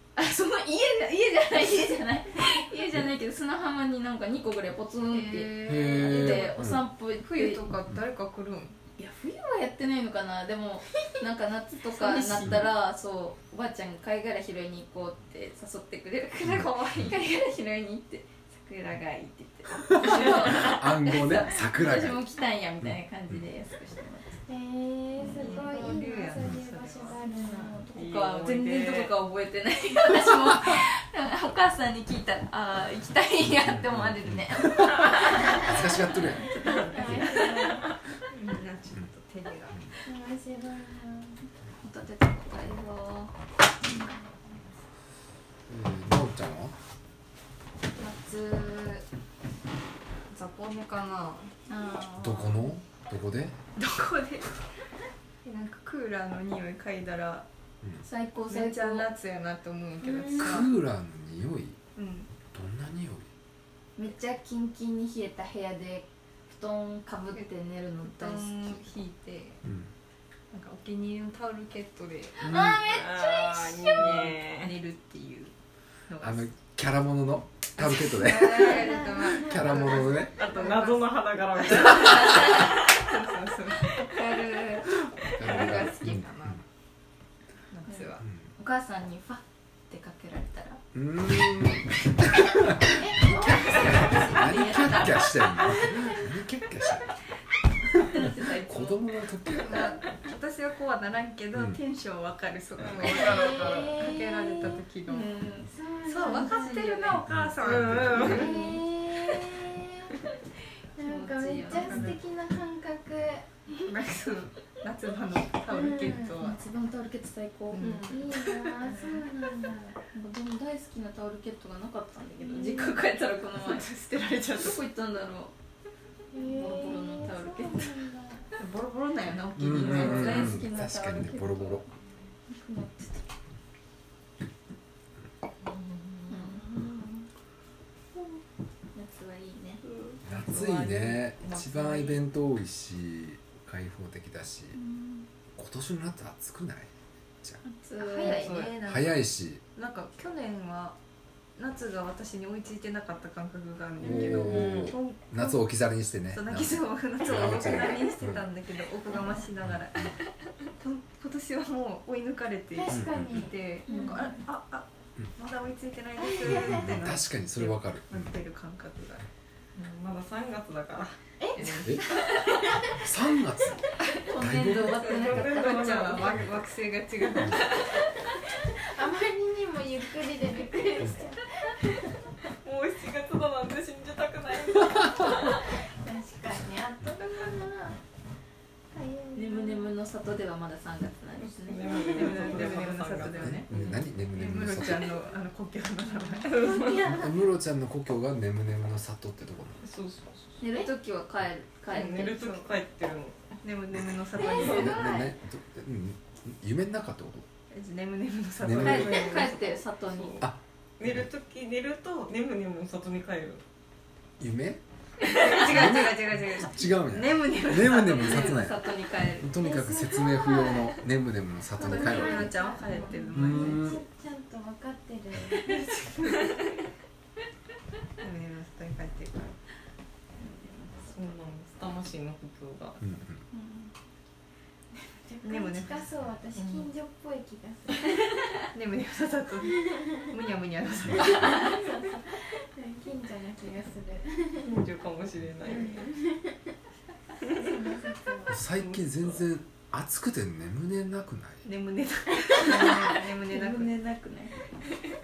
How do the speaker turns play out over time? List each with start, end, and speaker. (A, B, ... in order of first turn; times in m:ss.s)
0:00.2-0:07.7 A
0:05.1-0:08.8 B
0:05.6-0:06.8 C
0:09.0-0:24.4 A
0:11.8-0:12.7 B
0:16.4-0:17.1 C
0:20.0-0:22.2 C
0:22.8-0:23.4 C
0:24.5-0:27.9 D
0:25.2-0:25.8 A
0:25.3-0:27.2 B
0:27.2-0:37.7 A
0:27.9-0:29.1 E
0:33.6-0:36.5 C
0:36.9-0:37.8 D
0:38.3-0:39.9 B
0:40.0-0:41.4 D
0:41.8-0:44.1 A
0:45.7-0:46.7 C
0:48.0-0:49.0 B
0:50.3-0:51.5 B
0:51.7-0:52.7 A
0:52.2-0:53.6 C
0:53.8-0:54.5 B
0:55.4-0:57.4 B
0:58.0-0:59.1 A
0:58.5-1:00.7 B
1:00.4-1:01.8 C
1:02.0-1:02.3 B
1:02.5-1:03.3 C
1:04.0-1:08.8 A
1:08.0-1:09.6 B
1:09.6-1:09.9 C
1:10.5-1:12.5 B
1:12.4-1:14.2 A
1:12.4-1:12.8 C
1:12.8-1:14.7 E
1:13.9-1:15.5 B
1:16.1-1:16.5 B
1:16.2-1:20.3 C
1:17.8-1:21.2 B
1:19.1-1:19.5 D
1:20.4-1:22.9 E
1:21.8-1:26.6 B
1:24.1-1:24.8 A
1:25.4-1:26.6 C
1:27.7-1:28.2 B
1:27.8-1:30.8 A
1:30.9-1:37.1 C
1:33.0-1:36.4 D
1:33.4-1:35.9 A
1:38.0-1:39.9 C
1:38.1-1:39.0 A
1:39.6-1:45.3 B
1:42.8-1:44.0 E
1:43.0-1:44.8 D
1:45.0-1:45.7 A
1:45.7-1:47.2 D
1:46.0-1:48.8 B
1:46.2-1:47.2 A
1:47.3-1:48.4 C
1:47.6-1:48.6 E
1:48.2-1:50.1 D
1:48.2-1:48.6 A
1:51.0-1:53.7 D
1:51.0-1:52.2 A
1:51.6-1:52.2 B
1:53.8-1:56.6 B
1:55.7-1:56.4 D
1:56.3-1:58.2 A
1:57.7-1:58.2 B
1:58.1-2:00.0 D
1:58.8-1:59.3 A
2:00.1-2:03.9 A
2:02.4-2:03.0 D
2:03.5-2:04.8 B
2:04.5-2:05.5 A
2:06.3-2:08.5 D
2:06.4-2:08.0 A
2:08.6-2:10.6 B
2:09.6-2:11.8 C
2:09.6-2:11.9 A
2:12.5-2:13.2 A
2:15.6-2:16.2 E
2:16.3-2:16.6 A
2:18.9-2:19.8 A
2:19.8-2:22.1 B
2:20.2-2:24.8 C
2:24.8-2:25.2 A
2:25.5-2:26.9 C
2:27.6-2:28.6 A
2:28.0-2:31.0 B
2:28.2-2:28.8 E
2:28.8-2:29.6 C
2:31.6-2:35.7 B
2:34.0-2:38.5 C
2:34.1-2:34.4 D
2:34.4-2:34.9 E
2:36.3-2:40.1 B
2:39.6-2:40.1 C
2:40.8-2:49.3 B
2:42.7-2:44.1 D
2:42.9-2:43.5 C
2:43.9-2:44.3 A
2:46.2-2:46.8 D
2:46.4-2:48.3 C
2:49.7-2:51.9 E
2:51.4-2:53.0 D
2:52.9-2:53.8 C
2:54.2-2:56.4 A
2:54.3-2:55.3 C
2:55.1-2:58.0 B
2:55.1-2:56.4 E
2:58.7-3:02.3 D
3:02.6-3:05.6 E
3:05.5-3:08.0 D
3:08.9-3:09.9 D
3:09.3-3:13.6 A
3:11.4-3:14.0 E
3:11.9-3:12.3 D
3:12.1-3:16.9 B
3:13.2-3:15.2 C
3:16.4-3:17.0 E
3:16.5-3:17.4 D
3:17.0-3:19.8 C
3:19.8-3:20.6 E
3:20.6-3:22.4 A
3:21.9-3:23.5 E
3:22.4-3:22.6 B
3:23.6-3:25.0 B
3:24.4-3:25.1 D
3:24.6-3:27.5 C
3:27.7-3:29.8 B
3:28.6-3:29.3 C
3:28.8-3:30.4 A
3:30.2-3:30.4 E
3:30.4-3:31.3 C
3:31.0-3:33.6 E
3:34.4-3:34.8 C
3:35.3-3:38.6 B
3:35.5-3:42.5 C
3:37.9-3:39.5 A
3:39.6-3:41.0 D
3:41.8-3:44.0 B
3:41.8-3:46.2 D
3:42.0-3:43.2 A
3:43.3-3:44.0 C
3:45.7-3:46.6 B
3:48.2-3:49.5 B
3:50.4-3:51.1 A
3:51.1-3:53.0 E
3:53.0-3:53.4 C
3:53.5-3:53.9 A
3:55.1-3:58.4 D
3:55.4-3:56.0 B
3:56.6-3:56.9 E
3:58.7-4:01.8 B
3:59.8-4:00.3 D
4:01.1-4:01.4 C
4:01.1-4:04.7 D
4:04.6-4:06.0 E
4:05.6-4:06.7 D
4:07.5-4:08.6 D
4:08.5-4:11.7 C
4:08.8-4:09.4 E
4:11.6-4:13.9 B
4:12.6-4:14.6 A